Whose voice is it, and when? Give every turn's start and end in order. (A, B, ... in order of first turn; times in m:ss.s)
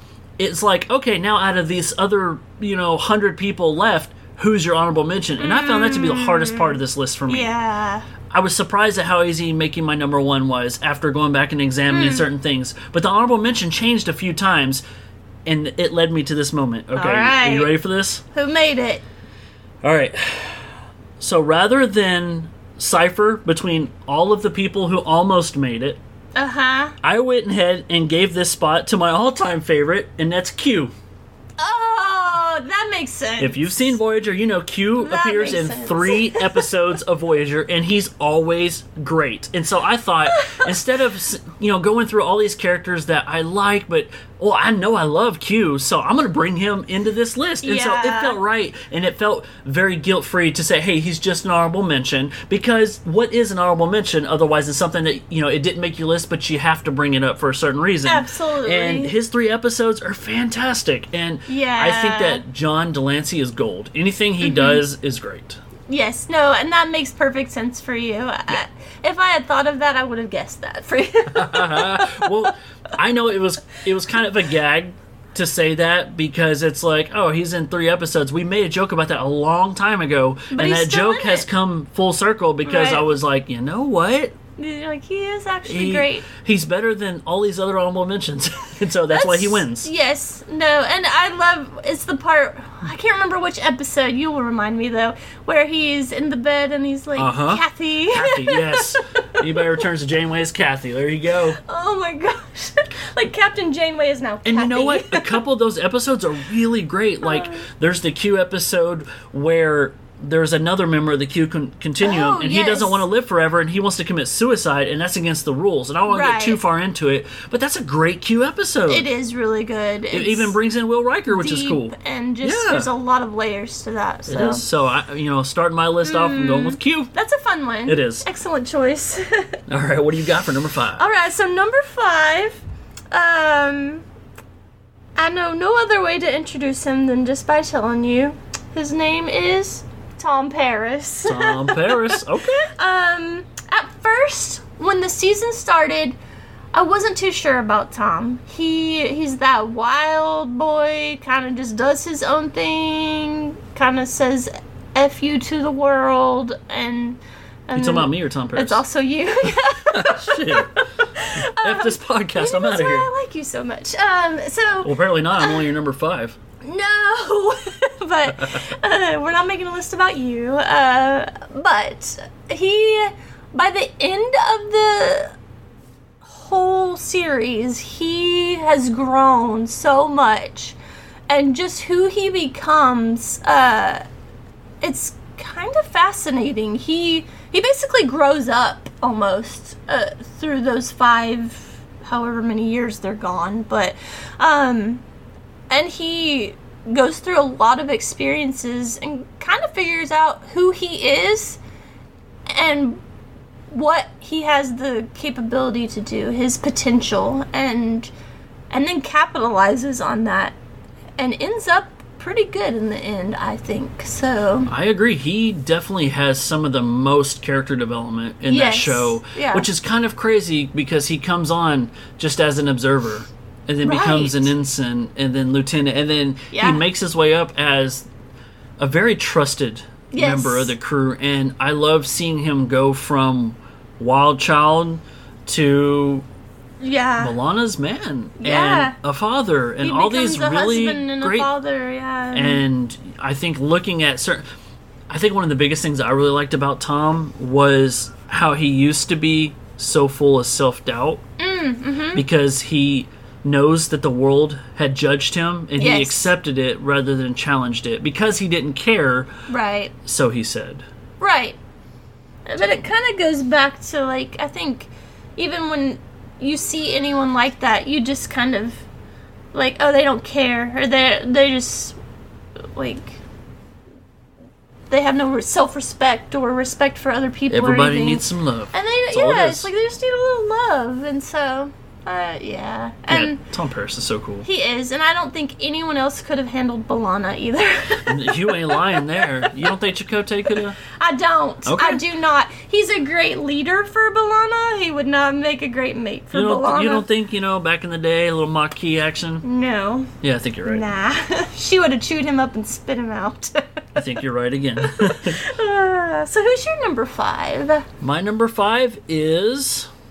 0:00.4-0:07.5 A
0:05.4-0:08.1 B
0:08.3-0:14.8 A
0:11.9-0:12.3 B
0:15.5-0:18.2 A
0:17.0-0:17.7 B
0:18.3-0:19.0 B
0:19.8-0:20.7 A
0:21.2-0:26.0 A
0:26.4-0:27.0 B
0:27.0-0:30.9 A
0:31.6-0:34.0 B
0:33.4-1:05.6 A
0:35.0-0:36.7 B
0:40.3-0:40.7 B
0:47.6-0:48.4 B
0:58.1-0:59.1 B
1:01.5-1:02.4 B
1:04.4-1:04.8 B
1:05.9-1:12.3 B
1:11.3-1:24.4 A
1:20.5-1:21.5 B
1:22.6-1:23.0 B
1:24.6-1:26.3 B
1:25.7-1:29.9 A
1:29.1-1:39.6 B
1:37.2-1:41.6 A
1:41.6-1:45.4 B
1:44.4-1:59.1 A
1:47.2-1:47.6 B
1:52.0-1:53.0 B
1:56.1-1:56.6 B
1:58.9-2:00.5 B
2:00.1-2:02.9 A
2:01.3-2:04.6 B
2:04.3-2:07.1 A
2:06.0-2:09.6 B
2:07.9-2:08.3 A
2:09.7-2:11.0 A
2:11.0-2:12.6 B
2:13.1-2:14.0 B
2:15.2-2:22.2 B
2:21.2-2:22.7 A
2:22.7-2:26.2 B
2:26.7-2:45.6 B
2:37.8-2:38.8 A
2:39.9-2:43.1 A
2:44.8-2:46.4 A
2:46.6-2:55.4 B
2:48.4-2:48.7 A
2:56.2-3:00.8 B
3:01.3-3:04.0 B
3:04.8-3:15.0 B
3:15.7-3:21.6 B
3:22.5-3:23.0 B
3:23.7-3:28.1 B
3:28.7-3:30.6 B
3:31.2-3:34.7 B
3:34.7-3:48.1 A
3:38.5-3:39.7 B
3:43.8-3:44.5 B
3:46.5-3:46.8 B
3:48.8-3:56.2 A
3:50.1-3:50.7 B
3:56.8-3:57.3 B
3:57.2-4:01.5 A
3:58.4-3:59.0 B
3:59.8-4:02.6 B
4:02.3-4:04.4 A
4:05.1-4:11.2 A
4:11.4-4:12.2 B
4:12.1-4:19.3 A
4:15.8-4:16.3 B
4:19.5-4:19.9 B
4:20.0-4:20.8 A
4:21.2-4:21.6 B
4:22.5-4:28.8 B
4:29.5-4:32.0 B
4:32.7-4:33.2 B
4:34.9-4:43.4 B
4:37.5-4:39.7 A
4:43.1-4:44.5 A
4:44.4-4:49.5 B
4:48.1-4:50.8 A
4:50.9-4:57.1 B
4:51.7-4:52.0 A
4:56.3-4:59.4 A
4:59.4-5:00.1 B
5:00.2-5:00.8 A
5:00.7-5:04.0 B
5:04.0-5:05.4 A
5:04.8-5:07.9 B
5:08.0-5:09.9 A